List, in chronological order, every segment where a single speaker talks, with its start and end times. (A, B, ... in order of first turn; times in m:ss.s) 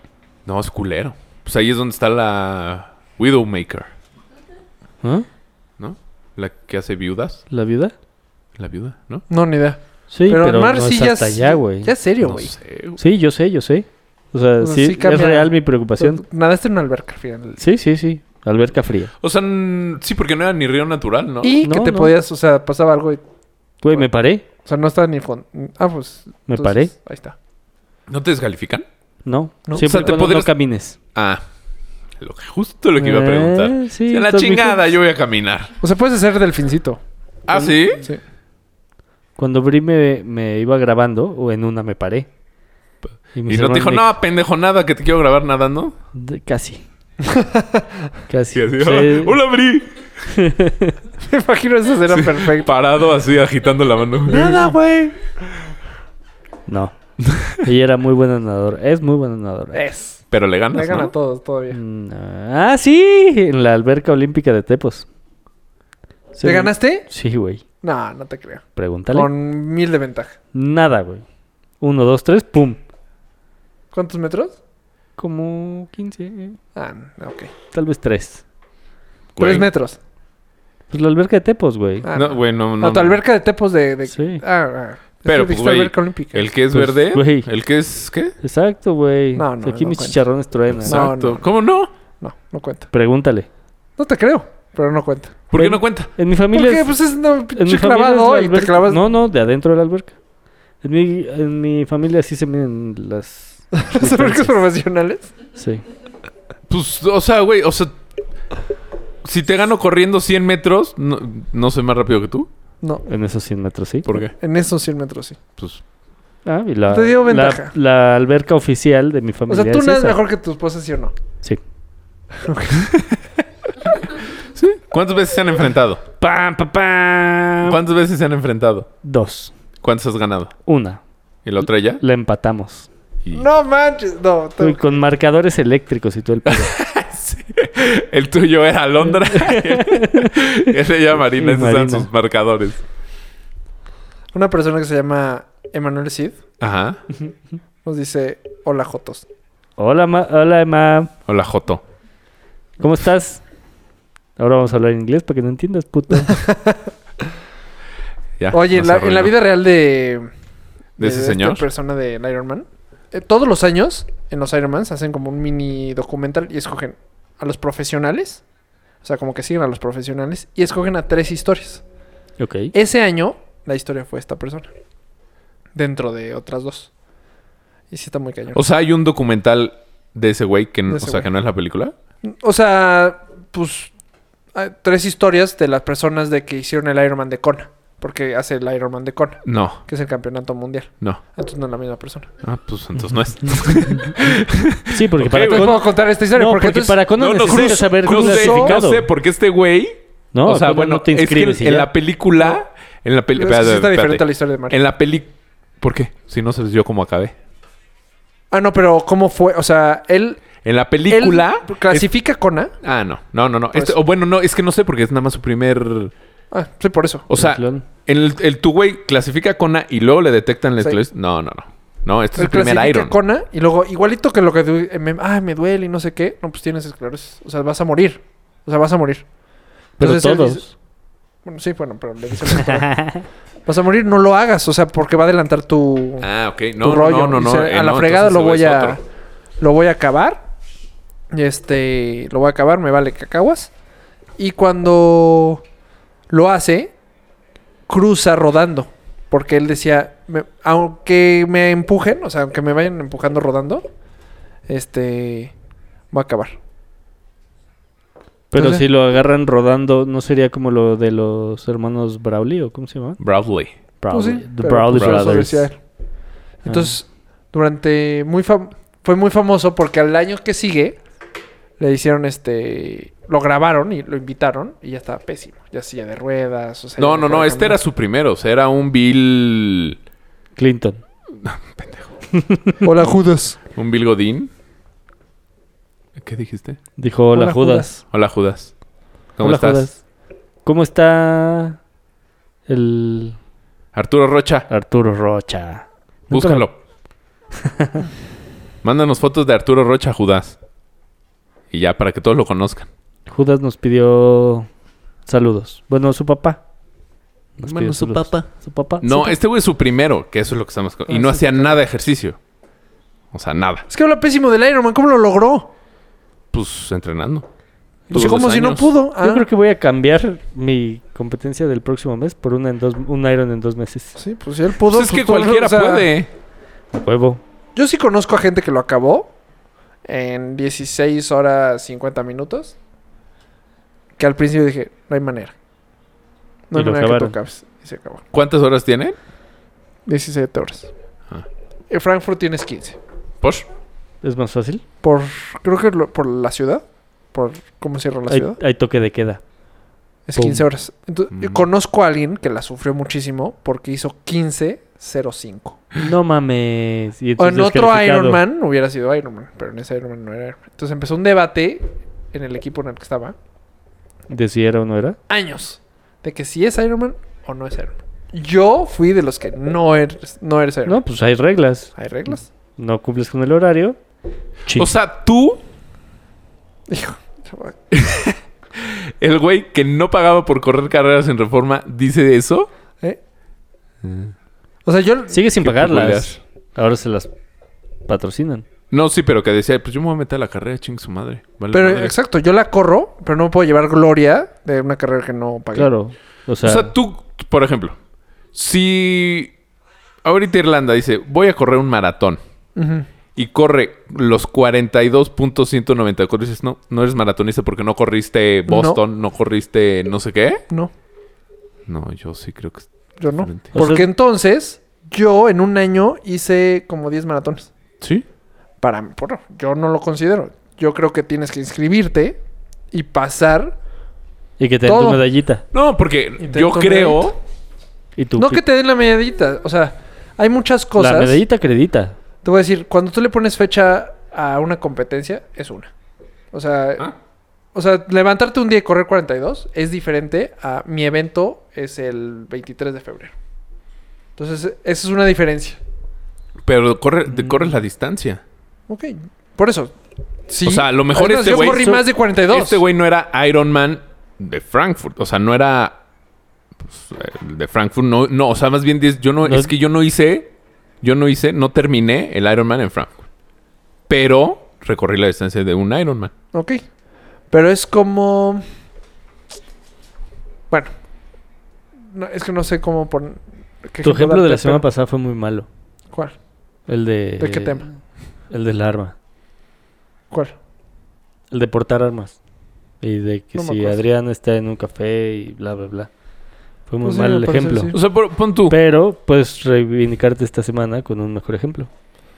0:00.4-0:03.9 A
0:05.8-0:07.4 A
0:07.5-0:07.9 B
0:08.6-0:09.2 A
0:09.3-0:12.5 C
0:10.1-0:11.9 B
0:12.2-0:13.0 A
0:13.0-0:16.2 B
0:14.6-0:17.6 C
0:17.6-0:19.1 B
0:19.2-0:21.6 A
0:21.4-0:23.2 C
0:21.6-0:22.1 B
0:23.8-0:24.4 B
0:24.6-0:27.4 C
0:26.5-0:26.9 B
0:28.1-0:28.8 A
0:29.2-0:31.0 B
0:29.7-0:30.2 C
0:29.8-0:30.5 A
0:31.1-0:31.4 A
0:32.2-0:35.7 A
0:33.0-0:34.9 B
0:35.8-0:37.0 C
0:37.5-0:38.0 A
0:39.4-0:42.3 B
0:43.3-0:44.1 B
0:43.4-0:45.9 A
0:46.1-0:46.8 B
0:47.2-0:47.8 C
0:48.3-0:49.4 B
0:48.5-0:49.9 A
0:50.3-0:51.0 B
0:51.2-0:52.7 C
0:52.1-0:54.8 A
0:54.3-0:55.1 C
0:56.7-0:56.9 B
0:57.2-0:57.6 A
0:57.6-0:59.8 B
0:59.7-1:01.8 C
1:00.3-1:01.1 A
1:01.7-1:05.0 B
1:06.3-1:07.6 B
1:06.4-1:07.1 C
1:07.8-1:10.4 C
1:08.8-1:09.3 B
1:10.5-1:11.2 B
1:11.8-1:12.8 B
1:13.9-1:14.6 C
1:15.2-1:16.6 B
1:16.7-1:17.5 C
1:17.7-1:18.4 B
1:19.4-1:19.7 A
1:19.4-1:20.0 C
1:20.9-1:22.1 B
1:22.0-1:26.5 C
1:22.1-1:23.2 A
1:24.1-1:24.4 B
1:25.2-1:28.4 A
1:26.7-1:27.5 B
1:28.4-1:31.0 B
1:29.3-1:30.2 C
1:30.8-1:31.5 C
1:30.8-1:31.9 A
1:32.2-1:32.9 C
1:32.9-1:33.5 B
1:34.0-1:35.4 C
1:35.5-1:36.1 A
1:35.5-1:36.9 B
1:36.5-1:39.0 C
1:37.6-1:40.2 B
1:40.8-1:44.5 B
1:43.7-1:45.3 C
1:45.6-1:45.8 B
1:46.7-1:48.0 A
1:49.2-1:52.5 A
1:53.0-1:54.1 B
1:54.0-1:54.3 A
1:54.4-1:55.4 C
1:55.6-1:55.8 A
1:56.4-2:00.2 B
1:56.9-1:57.7 C
1:59.5-2:01.1 C
2:02.4-2:03.0 C
2:04.5-2:06.0 A
2:06.2-2:07.8 B
2:07.6-2:08.9 A
2:09.0-2:09.5 B
2:09.8-2:10.5 A
2:10.6-2:11.0 B
2:11.4-2:12.0 A
2:12.0-2:12.9 B
2:13.3-2:15.0 C
2:14.6-2:16.7 B
2:16.4-2:22.8 A
2:19.0-2:22.1 B
2:24.3-2:26.4 C
2:26.6-2:27.0 A
2:27.8-2:29.2 C
2:29.8-2:31.1 B
2:31.3-2:31.8 A
2:32.8-2:33.4 B
2:34.4-2:36.4 B
2:36.3-2:36.8 C
2:38.4-2:39.3 A
2:38.5-2:40.3 C
2:41.0-2:41.7 A
2:41.0-2:48.4 C
2:49.0-2:51.8 C
2:52.4-2:52.7 B
2:52.7-2:54.7 C
2:55.7-2:56.9 C
2:57.9-2:58.6 C
2:58.5-3:01.9 A
3:00.9-3:01.3 C
3:02.2-3:03.9 C
3:04.5-3:12.3 C
3:09.4-3:09.8 A
3:12.4-3:15.7 A
3:14.9-3:19.0 B
3:15.3-3:18.8 C
3:17.2-3:27.3 A
3:20.3-3:21.9 B
3:23.3-3:24.8 C
3:28.5-3:32.7 C
3:30.6-3:32.1 A
3:32.8-3:36.1 A
3:36.5-3:37.3 C
3:37.3-3:43.1 A
3:37.4-3:37.8 B
3:42.4-3:49.2 C
3:50.0-3:50.7 B
3:50.0-3:50.7 C
3:51.4-3:53.1 C
3:52.6-3:53.2 B
3:53.6-3:56.3 C
3:56.2-3:59.0 A
3:56.8-3:59.0 C
3:59.6-4:00.4 C
4:01.3-4:03.7 C
4:04.4-4:05.6 C
4:06.3-4:06.9 C
4:07.9-4:13.8 C
4:14.7-4:15.5 C
4:16.1-4:16.6 C
4:18.5-4:23.2 B
4:18.6-4:18.8 C
4:23.2-4:23.7 A
4:24.0-4:25.7 B
4:24.1-4:25.8 C
4:24.9-4:25.4 A
4:26.6-4:31.0 C
4:26.6-4:26.9 B
4:31.8-4:37.8 C
4:37.0-4:40.0 A
4:40.6-4:41.0 B
4:41.3-4:42.1 A
4:42.3-4:42.8 B
4:42.8-4:43.6 C
4:43.7-4:44.5 A
4:46.2-4:46.8 A
4:47.0-4:48.0 B
4:47.3-4:47.9 C
4:48.1-4:48.7 A
4:49.4-4:49.9 A
4:49.4-4:50.0 B
4:50.6-4:51.8 B
4:52.7-4:53.4 B
4:53.9-4:54.7 A
4:54.7-4:56.7 B
4:56.3-4:56.8 A
4:57.6-4:58.0 B
4:58.8-5:00.6 A
5:01.7-5:02.9 A
5:03.3-5:04.7 B
5:05.2-5:06.6 B
5:07.6-5:09.3 B
5:07.6-5:08.5 A
5:09.0-5:12.4 A
5:11.1-5:11.8 C
5:13.3-5:13.8 A
5:13.9-5:15.7 C
5:16.5-5:17.5 A
5:18.1-5:18.4 B
5:18.1-5:18.9 A
5:18.1-5:19.4 C
5:19.2-5:24.2 B
5:24.2-5:26.1 C
5:24.9-5:26.3 A
5:26.9-5:27.4 B
5:27.8-5:29.3 C
5:30.0-5:32.7 C
5:34.2-5:35.5 C
5:36.7-5:38.2 C
5:36.7-5:37.4 B
5:38.3-5:39.2 A
5:40.0-5:40.9 C
5:41.9-5:43.0 C
5:44.2-5:44.8 B
5:45.0-5:48.6 C
5:48.3-5:49.4 B
5:50.3-5:55.8 C
5:50.4-5:50.6 B
5:51.3-5:51.6 A
5:56.0-5:58.4 B
5:57.4-6:03.3 C
6:04.3-6:05.2 B
6:05.3-6:11.0 C
6:10.8-6:11.9 B
6:12.0-6:12.5 C
6:12.8-6:14.0 B
6:14.7-6:15.6 A
6:16.9-6:17.8 C
6:17.9-6:22.7 A
6:24.0-6:24.3 A
6:24.8-6:25.4 C
6:25.3-6:27.3 B
6:25.6-6:26.4 A
6:28.1-6:28.6 B
6:28.9-6:32.1 A
6:31.7-6:35.9 C
6:35.7-6:36.9 B
6:36.6-6:38.0 A
6:38.5-6:39.5 A
6:40.2-6:42.4 A
6:42.8-6:43.1 C
6:43.4-6:50.6 A
6:48.7-6:49.0 C
6:51.9-6:53.8 A
6:53.2-6:57.7 C
6:53.7-6:54.1 B
6:58.8-7:02.4 C
7:02.9-7:03.7 C
7:04.6-7:05.6 B
7:04.8-7:05.2 C
7:05.7-7:07.4 A
7:06.4-7:07.3 C
7:08.2-7:08.6 B
7:08.4-7:11.4 C
7:11.0-7:12.2 B
7:12.4-7:15.9 C
7:16.5-7:17.1 C
7:17.7-7:23.3 C
7:24.4-7:25.8 C
7:26.6-7:28.4 A
7:28.9-7:29.9 C
7:30.5-7:32.8 C
7:30.6-7:36.0 A
7:31.6-7:32.0 B
7:36.8-7:40.5 A
7:39.4-7:39.7 B
7:41.0-7:43.2 A
7:44.1-7:46.3 A
7:46.5-7:46.8 C
7:47.5-7:48.6 C
7:52.1-7:54.8 C
7:54.0-7:55.7 B
7:56.9-7:57.9 B
7:57.4-7:57.9 C
7:58.5-7:59.1 B
8:01.5-8:02.4 B
8:03.0-8:06.1 B
8:03.6-8:04.0 C
8:06.9-8:07.9 B
8:07.0-8:08.0 C
8:07.9-8:08.8 A
8:08.7-8:11.9 B